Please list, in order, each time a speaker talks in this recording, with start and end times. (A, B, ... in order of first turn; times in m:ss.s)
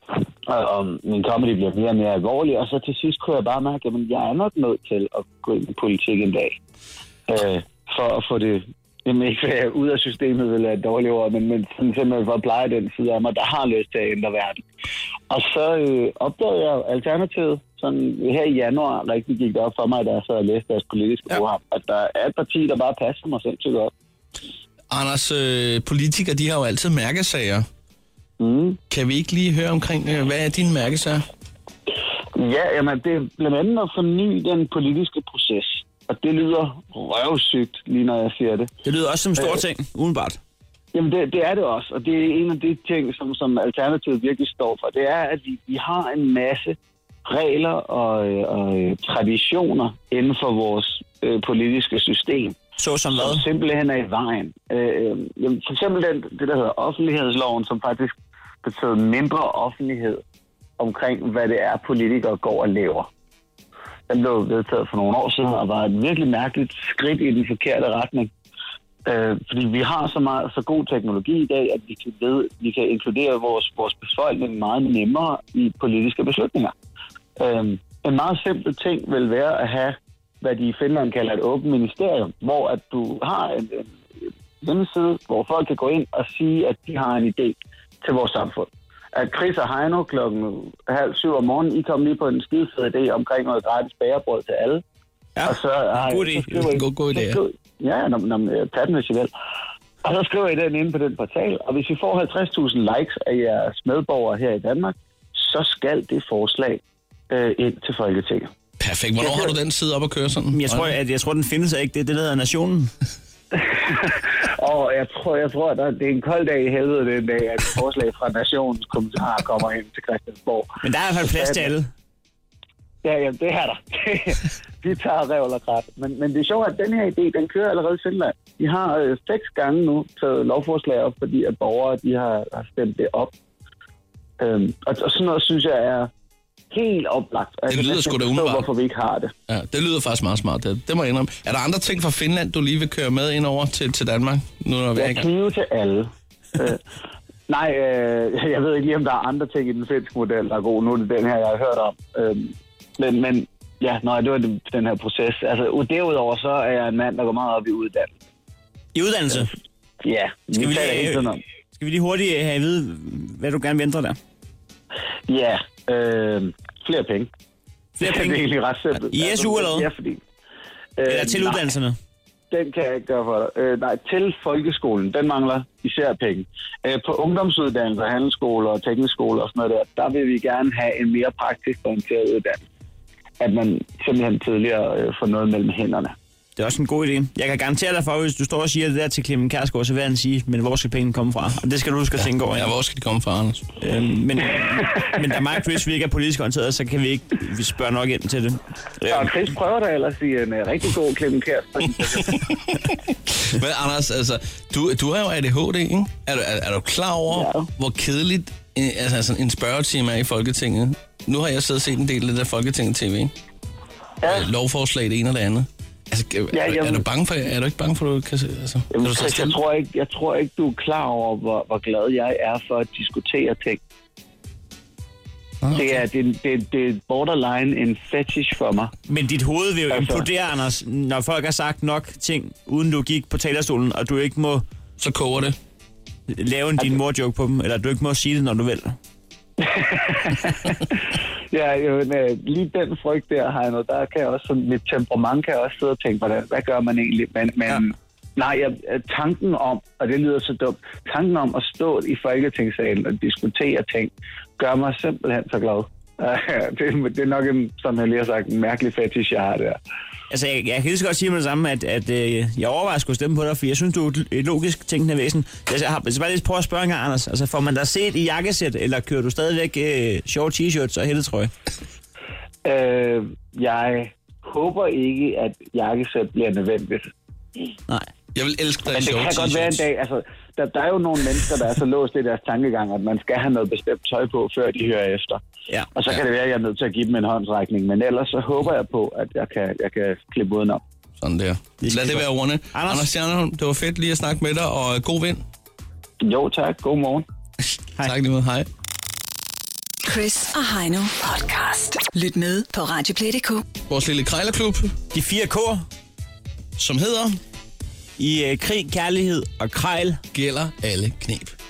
0:00.4-0:06.6 A
0:07.3-0:14.6 A
0:15.3-0:23.9 A
0:24.9-0:27.6 B
0:28.4-0:28.8 A
0:28.9-0:31.2 B
0:32.3-0:38.7 A
0:38.8-0:40.4 C
0:40.9-0:52.6 A
0:52.8-0:53.4 C
0:53.1-1:00.2 A
1:00.8-1:03.1 A
1:04.1-1:08.3 A
1:09.0-1:16.7 A
1:17.4-1:34.8 A
1:35.4-1:36.6 C
1:35.4-1:39.3 A
1:36.7-1:37.4 B
1:40.0-1:48.5 A
1:48.8-1:50.9 B
1:49.2-1:49.5 A
1:50.5-1:52.9 C
1:53.5-2:00.7 A
2:00.8-2:01.9 C
2:01.3-2:01.7 A
2:03.0-2:13.3 A
2:14.4-2:16.1 A
2:16.7-2:19.3 A
2:17.7-2:18.6 B
2:19.5-2:25.2 B
2:25.0-2:26.8 A
2:27.5-2:38.1 A
2:38.9-2:39.5 C
2:40.0-2:41.4 A
2:40.6-2:44.2 C
2:45.3-2:47.3 A
2:48.0-2:48.4 C
2:48.0-2:50.2 A
2:49.1-2:49.9 C
2:51.0-2:51.6 A
2:51.1-2:52.0 C
2:52.5-3:02.6 A
3:03.4-3:06.2 A
3:06.6-3:12.7 C
3:12.5-3:13.6 B
3:13.8-3:19.3 C
3:19.1-3:22.4 A
3:22.3-3:33.3 B
3:27.3-3:27.7 A
3:34.2-3:34.5 A
3:34.2-3:39.6 B
3:36.5-3:37.0 A
3:38.9-3:43.8 A
3:45.6-3:46.0 B
3:45.7-3:48.9 A
3:49.1-3:54.6 C
3:49.9-3:50.3 A
3:55.0-3:55.5 B
3:56.3-3:59.0 C
3:59.6-4:19.8 A
4:20.3-4:31.5 C
4:32.6-4:37.1 A
4:38.3-4:39.8 B
4:38.9-4:45.4 A
4:45.9-4:50.8 A
4:51.2-4:55.4 B
4:51.8-4:53.1 C
4:56.2-4:57.2 A
4:58.0-4:58.7 B
5:00.0-5:03.6 D
5:03.9-5:04.9 B
5:05.1-5:05.8 C
5:06.8-5:07.4 B
5:08.2-5:10.2 C
5:10.3-5:11.5 B